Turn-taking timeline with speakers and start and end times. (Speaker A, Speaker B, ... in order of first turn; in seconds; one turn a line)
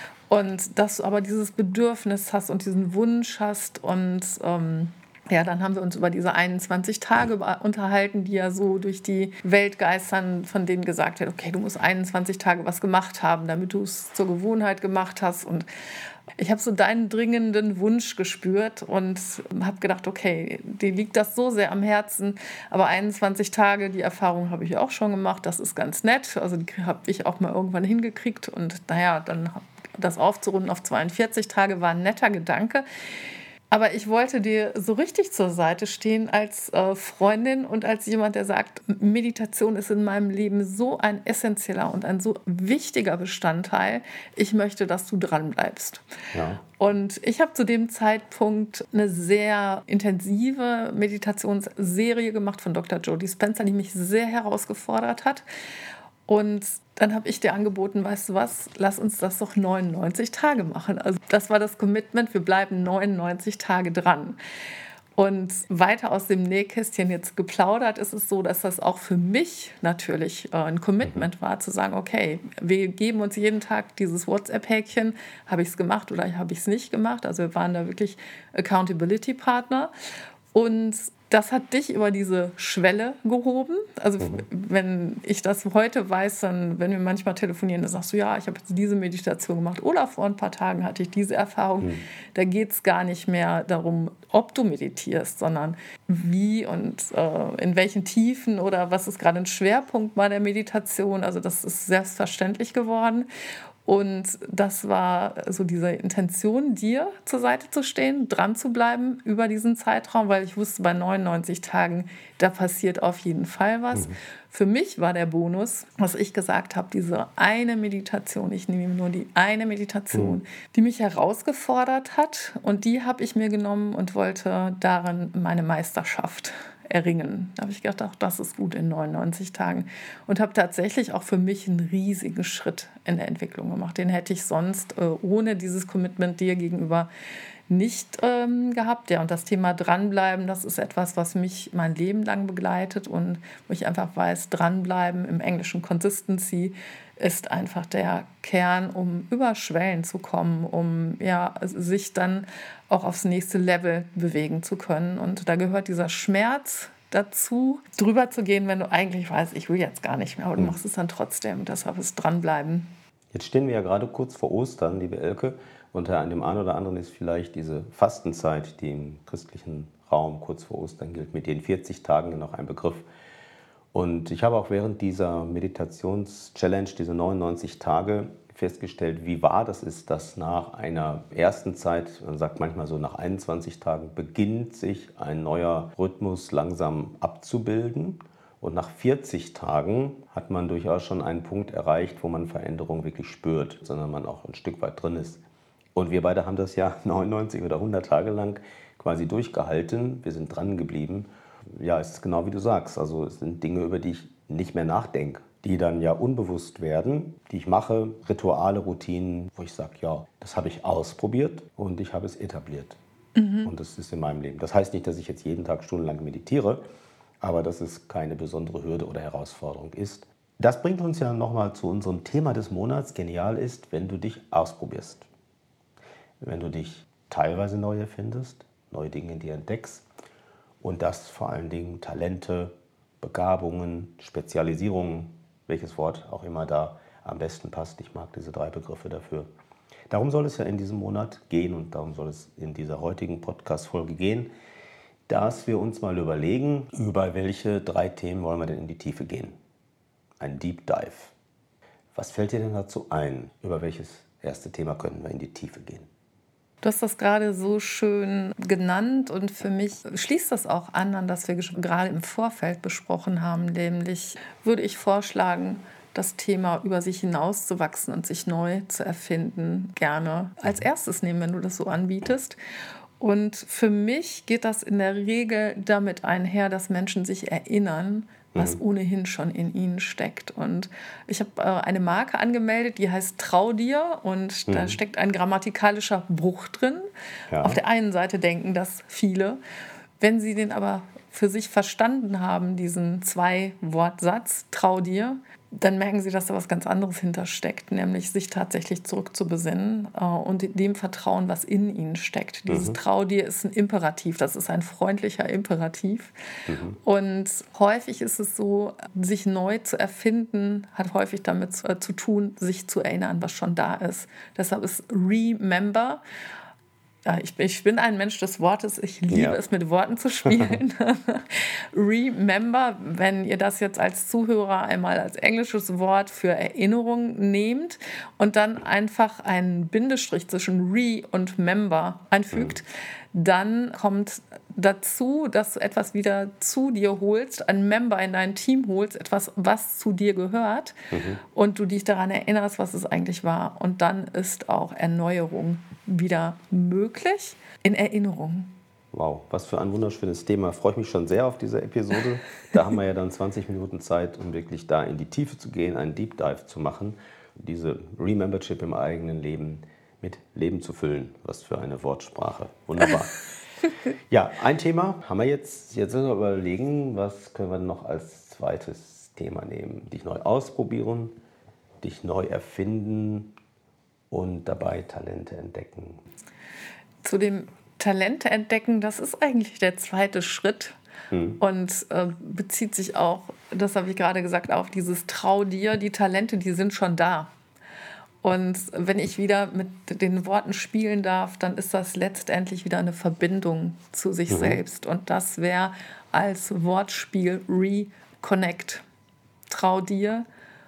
Speaker A: 0.3-15.7
Speaker A: 16.4-32.8
Speaker A: 33.7-46.0
Speaker B: 46.3-46.6
Speaker A: 46.7-55.5
Speaker A: 56.3-64.4
Speaker A: 65.2-79.9
Speaker A: 80.5-103.3
Speaker B: 84.2-84.5
Speaker A: 103.8-137.1
Speaker B: 120.1-120.4
Speaker A: 137.7-162.9
Speaker B: 163.3-173.1
Speaker B: 173.9-195.4
Speaker B: 195.9-213.0
Speaker A: 213.4-213.7
Speaker B: 213.7-216.8
Speaker B: 217.4-225.3
Speaker B: 226.4-230.1
Speaker B: 230.8-239.5
Speaker B: 240.1-244.5
Speaker B: 245.3-249.6
Speaker B: 250.4-251.3
Speaker B: 252.1-256.1
Speaker A: 256.8-272.6
Speaker A: 273.2-287.1
Speaker B: 278.5-278.8
Speaker B: 284.7-285.0
Speaker B: 287.5-287.8
Speaker A: 287.6-289.6
Speaker A: 290.2-306.3
Speaker B: 302.7-303.0
Speaker B: 306.7-307.0
Speaker A: 307.0-316.2
Speaker A: 317.2-340.9
Speaker B: 319.3-319.6
Speaker B: 320.5-320.8
Speaker B: 332.5-332.8
Speaker B: 341.1-341.4
Speaker A: 341.5-348.7
Speaker B: 349.1-363.4
Speaker B: 364.3-371.4
Speaker B: 372.0-373.6
Speaker B: 374.3-376.2
Speaker A: 377.2-381.0
Speaker B: 381.3-381.6
Speaker A: 381.6-387.5
Speaker A: 388.4-399.0
Speaker B: 394.5-394.8
Speaker A: 399.7-400.5